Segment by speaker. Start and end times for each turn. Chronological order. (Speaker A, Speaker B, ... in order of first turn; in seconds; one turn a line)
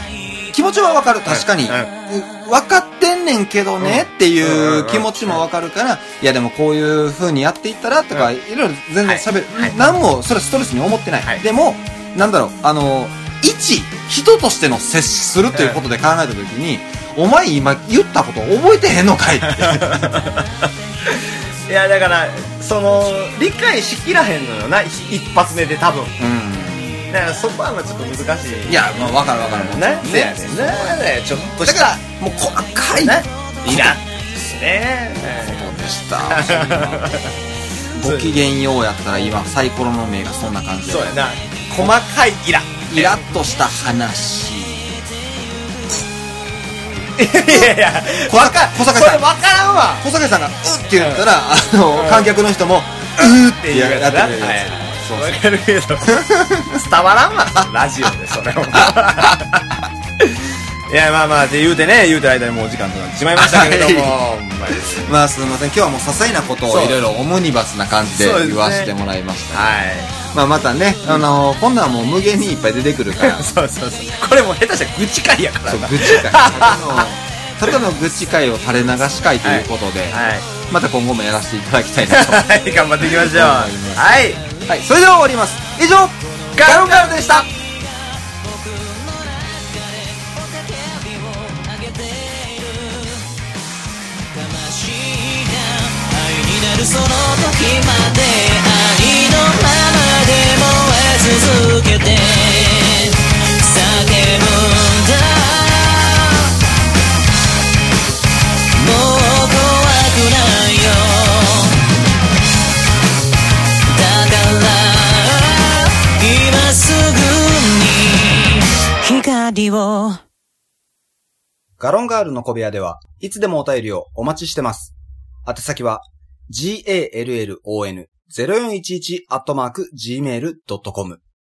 Speaker A: 0.5-20.1
Speaker B: 1.2-1.9
Speaker B: 3.8-5.4
Speaker B: 9.0-9.8
Speaker B: 15.5-15.8
Speaker B: 19.4-26.1
Speaker A: 26.2-27.1
Speaker B: 27.1-32.0
Speaker A: 28.7-31.1
Speaker A: 31.6-34.0
Speaker B: 33.0-35.7
Speaker A: 35.2-37.2
Speaker B: 36.3-37.3
Speaker A: 37.9-41.1
Speaker B: 38.0-38.4
Speaker B: 40.9-43.2
Speaker A: 42.9-45.0
Speaker B: 47.1-50.0
Speaker A: 48.2-49.2
Speaker A: 50.0-55.4
Speaker B: 51.0-51.2
Speaker B: 51.9-52.4
Speaker B: 53.2-59.6
Speaker A: 56.1-56.8
Speaker A: 58.7-59.4
Speaker B: 60.2-65.2
Speaker A: 63.4-64.2
Speaker A: 65.0-73.5
Speaker B: 66.7-67.0
Speaker B: 68.1-68.9
Speaker B: 69.5-70.1
Speaker B: 73.2-77.1
Speaker A: 75.7-84.1
Speaker B: 79.4-80.5
Speaker B: 82.1-84.4
Speaker A: 84.7-87.5
Speaker B: 86.5-87.4
Speaker C: 88.5-93.2
Speaker C: 94.3-106.5
Speaker C: 108.7-111.8
Speaker C: 113.9-120.2
Speaker D: 121.8-124.9
Speaker D: 125.5-131.2